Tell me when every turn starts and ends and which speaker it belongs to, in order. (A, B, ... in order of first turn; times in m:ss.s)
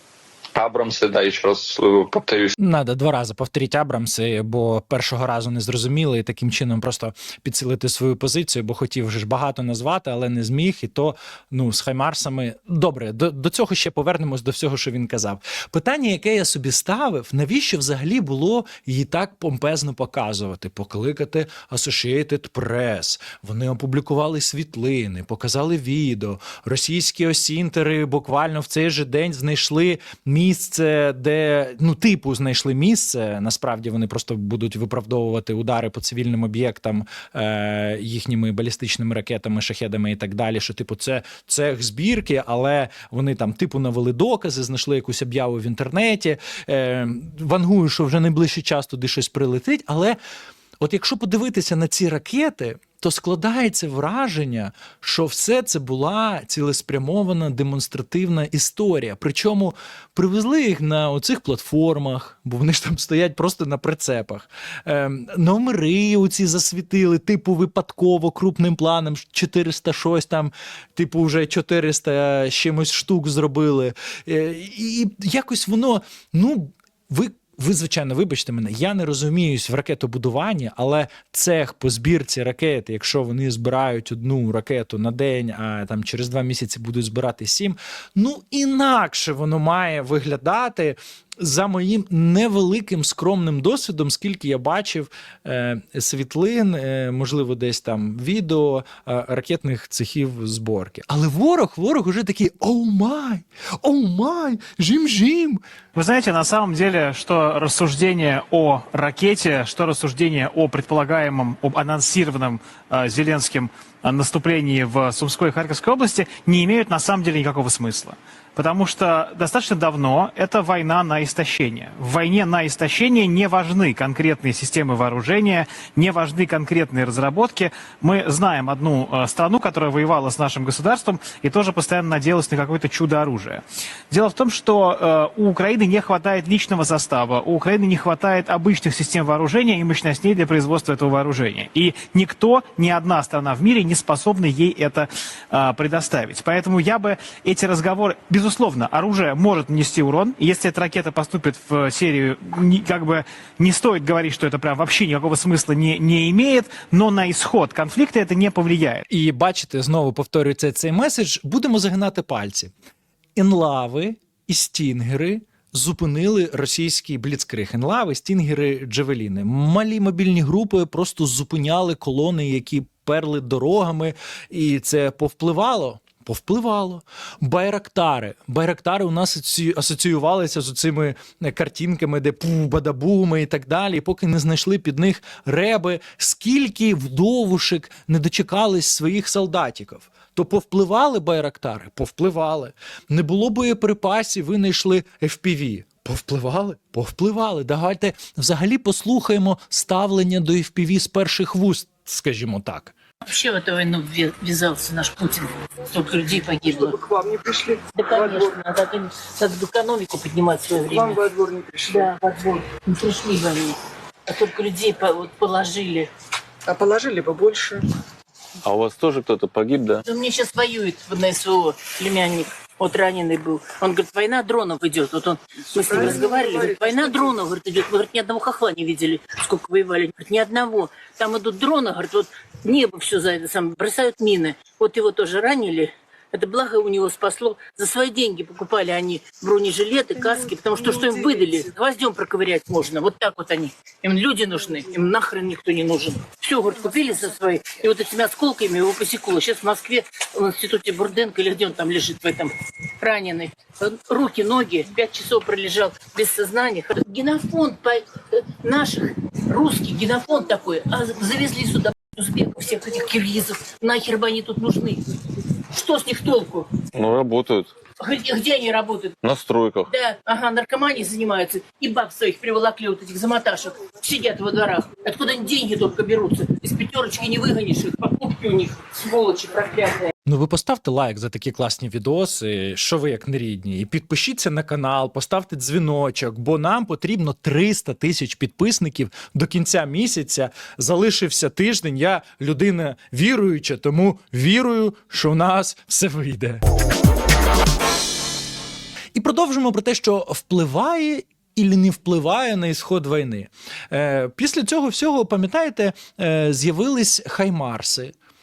0:00.6-0:02.6 A
0:02.6-0:50.2 B
0:50.8-1:45.6 B
1:45.9-2:39.0 C
2:39.1-2:42.7 B
2:43.4-3:22.9 B
3:23.2-3:27.0 D
3:27.1-3:27.8 E
3:27.9-3:36.1 D
3:31.4-3:31.7 E
3:36.7-3:37.8 E
3:38.6-3:40.0 F
3:40.0-4:25.0 D
4:25.7-4:26.7 D
4:26.9-4:27.7 F
4:28.0-4:29.1 D
4:29.2-4:29.9 F
4:29.9-4:40.1 D
4:40.2-4:56.6 B
4:59.1-5:08.1 B